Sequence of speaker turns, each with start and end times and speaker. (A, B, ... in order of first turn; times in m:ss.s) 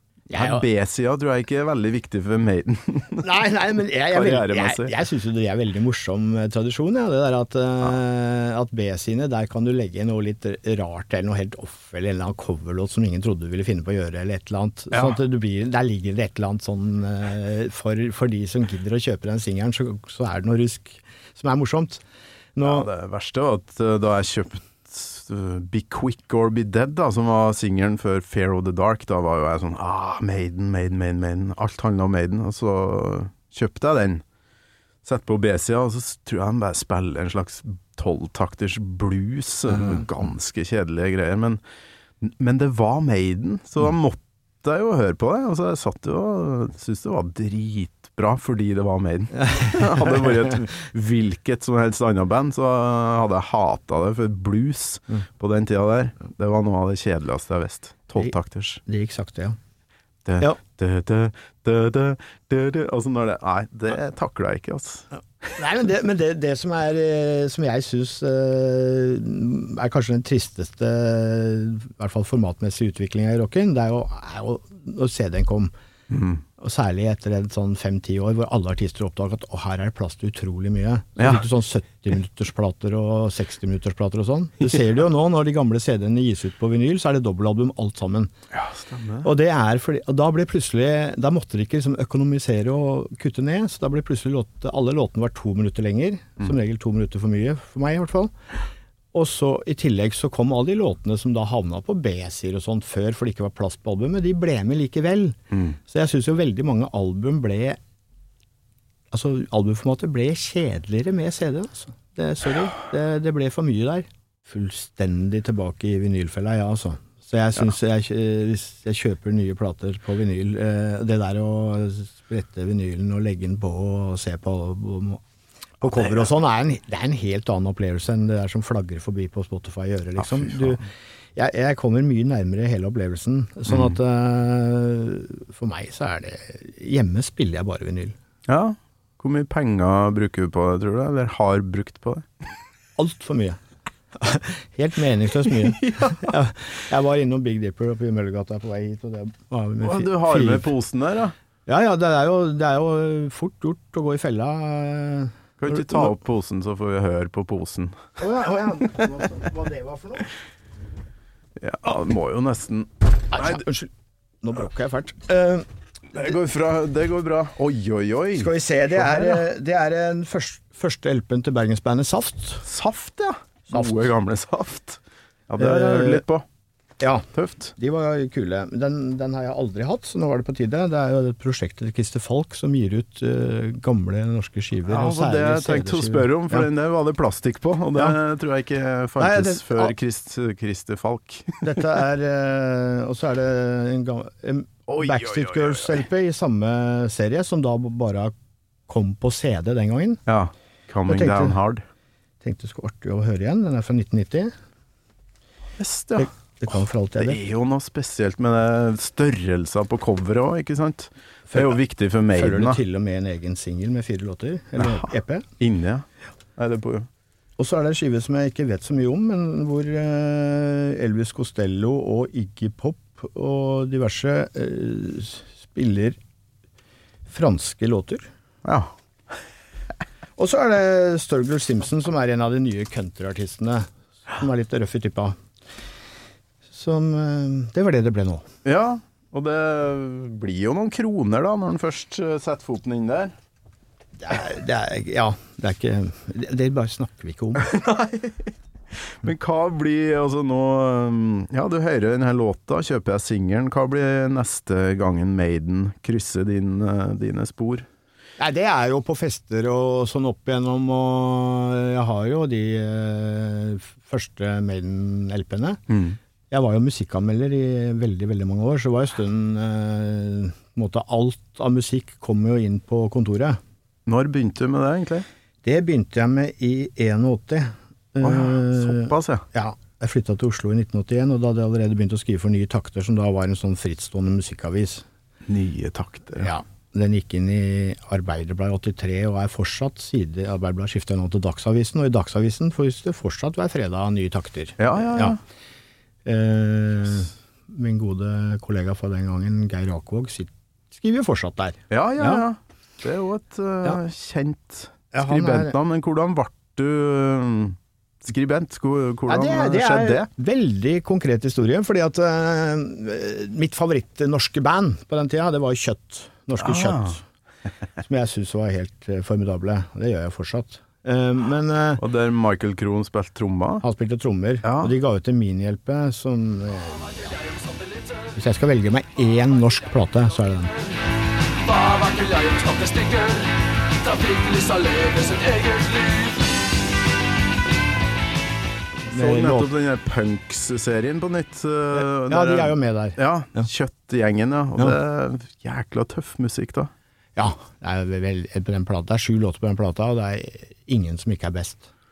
0:00.3-0:00.6 A
0:00.3-0:03.3 B
0:03.2-0:22.0 A
0:04.1-0:05.0 B
0:14.9-0:15.2 B
0:22.5-0:22.9 A
0:22.6-0:34.2 B
0:35.0-0:41.6 B
0:42.2-0:58.8 B
0:49.4-0:50.3 A
0:58.8-0:59.6 A
1:00.2-1:05.5 B
1:05.6-1:15.7 A
1:16.1-1:16.4 B
1:16.6-1:28.3 A
1:21.2-1:21.4 B
1:28.5-1:29.3 B
1:29.2-1:38.3 A
1:39.1-1:47.8 A
1:45.5-1:45.8 B
1:49.1-2:05.2 A
2:05.8-2:18.1 A
2:10.2-2:10.8 B
2:13.7-2:14.0 B
2:18.5-2:22.3 B
2:23.0-2:23.6 A
2:24.2-2:30.7 A
2:25.6-2:26.3 B
2:29.8-2:31.3 B
2:31.6-2:36.1 A
2:35.6-2:38.0 B
2:38.2-2:40.3 A
2:41.6-2:43.6 B
2:43.3-2:43.9 A
2:44.4-2:45.7 A
2:46.1-2:49.4 B
2:48.3-2:52.6 A
2:52.6-2:56.4 B
2:53.7-2:54.0 A
2:55.6-2:56.2 A
2:57.0-3:06.7 A
2:57.3-2:57.7 B
3:04.9-3:11.8 B
3:09.2-3:09.9 A
3:11.6-3:18.3 A
3:14.9-3:16.0 B
3:18.9-3:20.2 A
3:20.3-3:21.8 B
3:21.1-3:21.6 A
3:22.4-3:24.5 A
3:25.8-3:26.3 B
3:26.2-3:27.4 A
3:27.2-3:32.8 B
3:32.3-3:35.4 A
3:34.8-3:35.1 B
3:35.6-3:37.1 B
3:37.6-3:46.2 A
3:47.3-3:48.3 A
3:48.6-3:48.9 B
3:50.4-3:55.4 A
3:56.7-3:58.5 A
3:58.6-4:03.3 B
4:04.2-4:07.7 A
4:07.6-4:17.9 B
4:18.4-4:25.8 A
4:25.9-4:26.2 B
4:26.5-4:33.6 A
4:34.0-4:35.2 B
4:35.6-4:45.0 A
4:38.2-4:39.4 B
4:45.5-4:46.5 B
4:46.4-4:55.4 A
4:54.8-4:55.4 B
4:56.2-5:02.4 A
5:01.9-5:10.3 B
5:05.1-5:05.8 A
5:09.3-5:17.2 A
5:16.6-5:17.2 B
5:18.0-5:22.0 A
5:22.0-5:23.8 B
5:23.8-5:27.3 A
5:24.6-5:24.9 B
5:28.4-5:30.7 A
5:31.6-5:33.5 C
5:34.0-5:36.4 C
5:39.1-5:39.7 A
5:39.1-5:46.9 B
5:42.0-5:43.7 A
5:47.4-5:51.9 A